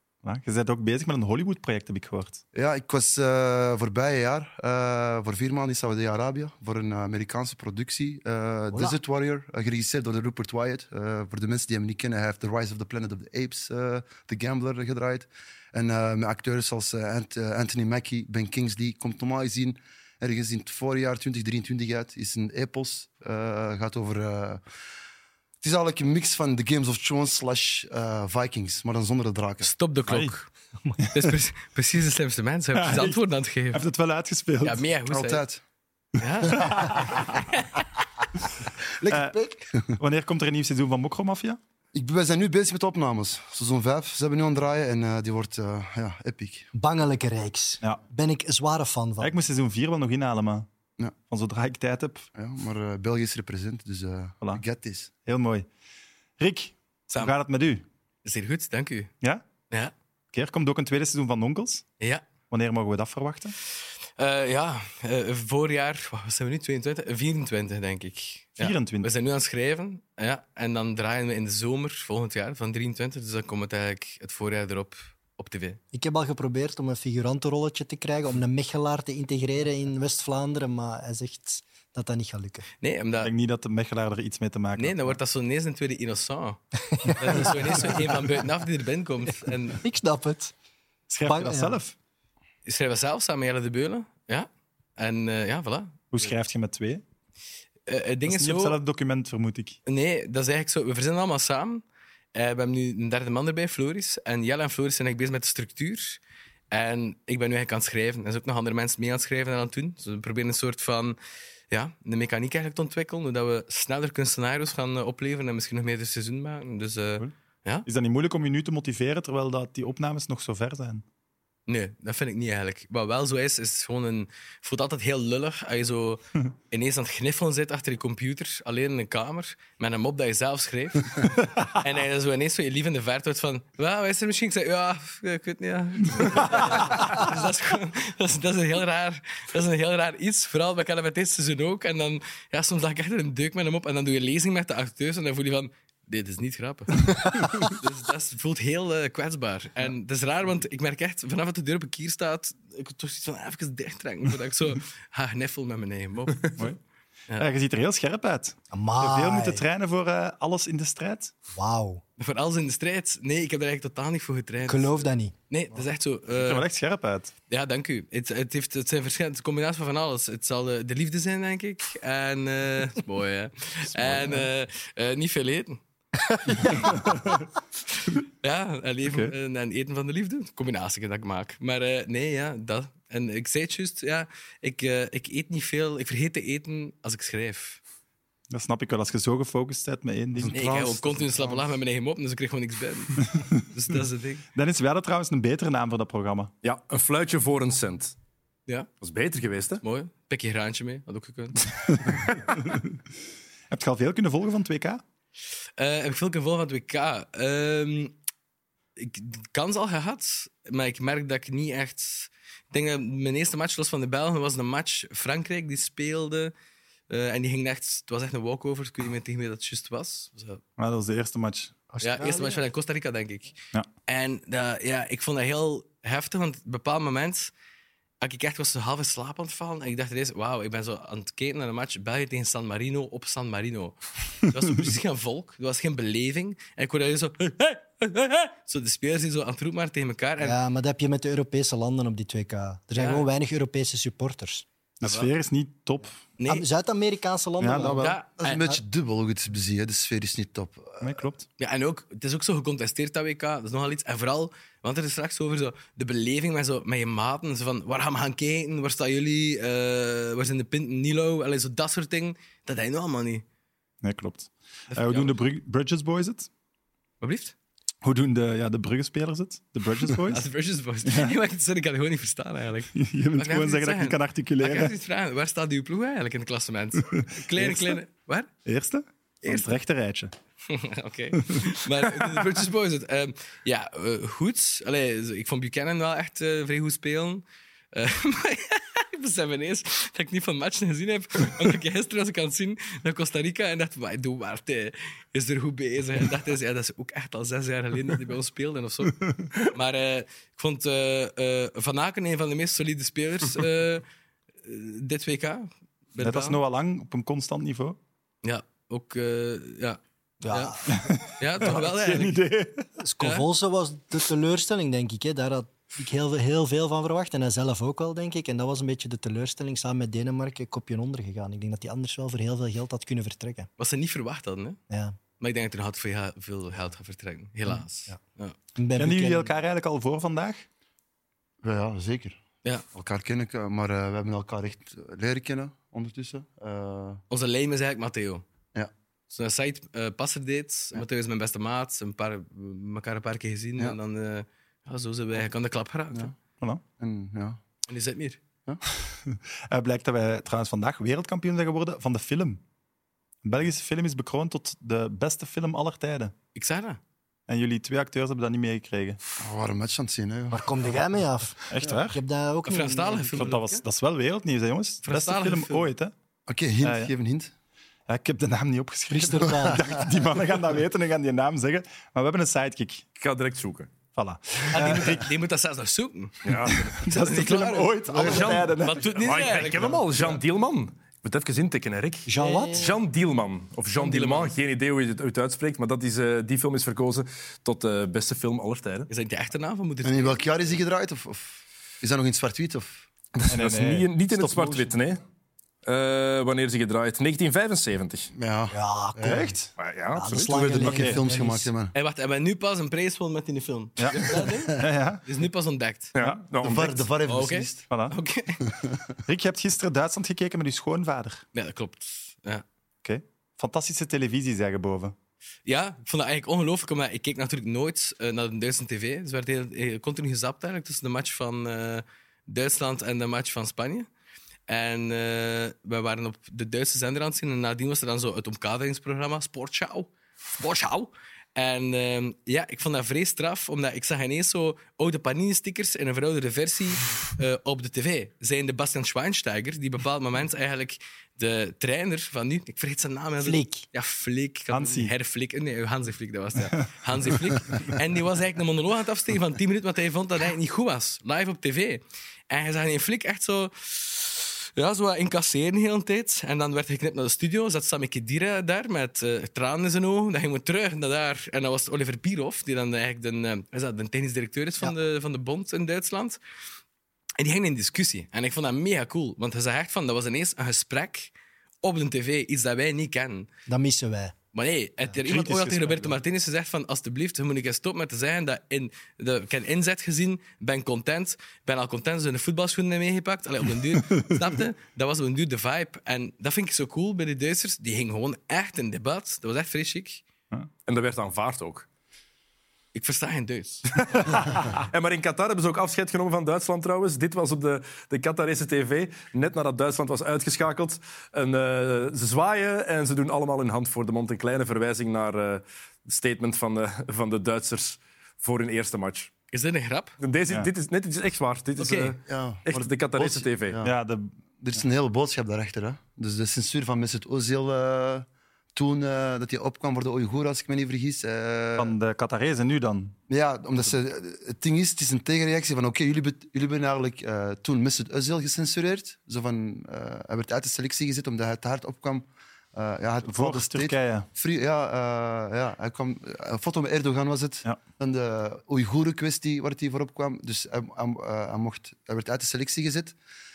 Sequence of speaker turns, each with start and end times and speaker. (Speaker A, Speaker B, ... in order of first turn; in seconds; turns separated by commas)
Speaker A: 0.2-2.4, Speaker B: 2.5-24.6, Speaker B: 25.6-29.7, Speaker C: 29.6-30.5, Speaker A: 30.1-30.3, Speaker C: 31.1-33.8, Speaker A: 32.8-33.2, Speaker A: 33.7-34.8, Speaker C: 34.6-35.4, Speaker B: 35.1-35.6, Speaker C: 36.2-37.9, Speaker A: 36.6-37.1, Speaker B: 39.0-40.0, Speaker A: 39.1-39.3, Speaker A: 40.0-41.6, Speaker B: 41.9-46.7, Speaker D: 46.8-49.3, Speaker A: 49.2-50.7, Speaker A: 51.3-52.2, Speaker B: 52.4-55.1, Speaker A: 55.2-55.7, Speaker A: 56.4-57.9, Speaker C: 58.2-59.1, Speaker A: 60.3-61.8, Speaker A: 62.5-63.5, Speaker C: 64.2-75.8, Speaker A: 68.6-69.1, Speaker D: 75.9-82.7, Speaker C: 82.8-83.3, Speaker A: 83.2-85.2, Speaker C: 84.8-89.8, Speaker D: 87.0-88.2, Speaker D: 89.5-90.5, Speaker A: 91.1-92.0, Speaker D: 91.3-91.8, Speaker C: 92.7-96.3, Speaker A: 96.1-97.0, Speaker C: 97.9-98.8, Speaker A: 98.3-99.8, Speaker C: 99.9-101.8, Speaker C: 102.3-106.2, Speaker C: 106.7-111.2, Speaker C: 111.7-117.9, Speaker A: 117.9-121.0, Speaker C: 121.7-156.7, Speaker A: 157.4-161.3, Speaker D: 158.7-159.6, Speaker D: 161.5-162.0, Speaker C: 162.2-166.6, Speaker D: 164.7-165.3, Speaker A: 166.3-167.3, Speaker C: 167.5-175.8, Speaker A: 173.9-174.5, Speaker D: 176.3-176.7, Speaker A: 176.7-177.4, Speaker C: 178.4-187.8, Speaker A: 179.1-179.3, Speaker A: 188.5-190.5, Speaker B: 190.4-191.7, Speaker C: 190.5-194.4, Speaker A: 194.6-196.5, Speaker E: 196.6-198.1, Speaker E: 199.0-199.8, Speaker C: 199.8-202.2, Speaker A: 202.5-202.9, Speaker A: 203.7-205.0, Speaker C: 205.8-208.2, Speaker C: 209.0-216.5, Speaker C: 217.1-220.6, Speaker A: 220.8-221.8, Speaker D: 221.9-222.6, Speaker C: 222.0-223.5, Speaker C: 224.1-227.5, Speaker C: 228.2-240.6, Speaker D: 240.4-244.7, Speaker C: 242.9-243.3, Speaker A: 245.0-246.2, Speaker C: 246.4-246.7, Speaker D: 246.5-248.8, Speaker A: 247.6-248.2, Speaker C: 247.8-248.6, Speaker B: 248.4-251.2, Speaker A: 251.0-251.4, Speaker C: 251.6-263.4, Speaker A: 264.0-266.5, Speaker C: 264.9-265.4, Speaker C: 267.2-267.5, Speaker A: 268.0-270.5, Speaker C: 270.3-278.5, Speaker A: 271.1-271.3, Speaker A: 272.9-274.9, Speaker A: 277.6-278.0, Speaker A: 278.7-280.3, Speaker C: 279.4-279.8, Speaker C: 280.7-304.0, Speaker A: 281.4-282.3, Speaker C: 304.6-306.6, Speaker A: 306.2-308.0, Speaker C: 308.4-310.8, Speaker D: 310.4-311.1, Speaker A: 310.9-312.9, Speaker C: 311.3-312.4, Speaker D: 313.0-323.7, Speaker C: 313.2-313.5, Speaker C: 323.8-324.8, Speaker D: 324.9-325.2, Speaker C: 325.4-328.6, Speaker D: 328.8-329.5, Speaker A: 329.0-330.6, Speaker B: 331.6-332.4, Speaker B: 332.9-337.2, Speaker C: 337.3-338.4, Speaker C: 339.3-346.3, Speaker B: 347.0-347.6, Speaker C: 347.9-348.4, Speaker A: 349.2-352.6, Speaker A: 353.4-356.3, Speaker C: 356.6-357.0, Speaker A: 357.5-359.2, Speaker B: 359.4-361.0, Speaker D: 360.5-363.6, Speaker A: 361.7-362.2, Speaker C: 362.6-363.8, Speaker A: 363.3-366.1, Speaker C: 365.0-365.9, Speaker B: 366.5-367.5, Speaker A: 366.8-367.1, Speaker A: 368.1-373.1, Speaker D: 369.1-369.8, Speaker E: 373.2-373.9, Speaker A: 374.1-375.3, Speaker C: 374.7-379.9, Speaker E: 376.4-376.9, Speaker A: 376.6-379.1, Speaker B: 378.1-378.7, Speaker E: 378.2-389.1, Speaker D: 382.3-383.0, Speaker C: 382.4-382.8, Speaker C: 383.9-384.5, Speaker C: 389.1-390.5, Speaker B: 390.0-393.1, Speaker E: 393.4-395.2, Speaker A: 393.5-394.1, Speaker B: 394.3-395.0, Speaker E: 395.9-398.3, Speaker B: 398.3-399.5, Speaker D: 398.7-399.6, Speaker A: 399.2-399.7, Speaker E: 399.8-400.6, Speaker D: 400.1-401.7, Speaker B: 400.4-401.9, Speaker A: 400.8-401.2, Speaker C: 401.9-406.1, Speaker A: 404.0-405.2, Speaker E: 406.1-407.1, Speaker B: 406.6-407.9, Speaker C: 407.3-408.6, Speaker A: 407.9-408.1, Speaker A: 409.3-411.4, Speaker C: 411.5-412.6, Speaker A: 413.0-415.1, Speaker C: 415.7-424.1, Speaker C: 424.7-466.4, Speaker D: 443.4-443.8, Speaker A: 444.7-445.1, Speaker C: 467.4-471.3, Speaker C: 471.8-473.5, Speaker D: 473.7-474.4, Speaker C: 474.5-490.2, Speaker A: 475.3-476.1, Speaker E: 490.9-491.9, Speaker C: 492.9-494.4, Speaker E: 494.2-509.3, Speaker C: 509.5-510.2, Speaker E: 510.2-513.8, Speaker C: 511.8-512.1, Speaker B: 512.3-513.9, Speaker A: 513.8-514.3, Speaker B: 514.6-521.9, Speaker A: 521.8-523.1, Speaker B: 523.3-543.2, Speaker A: 533.2-534.3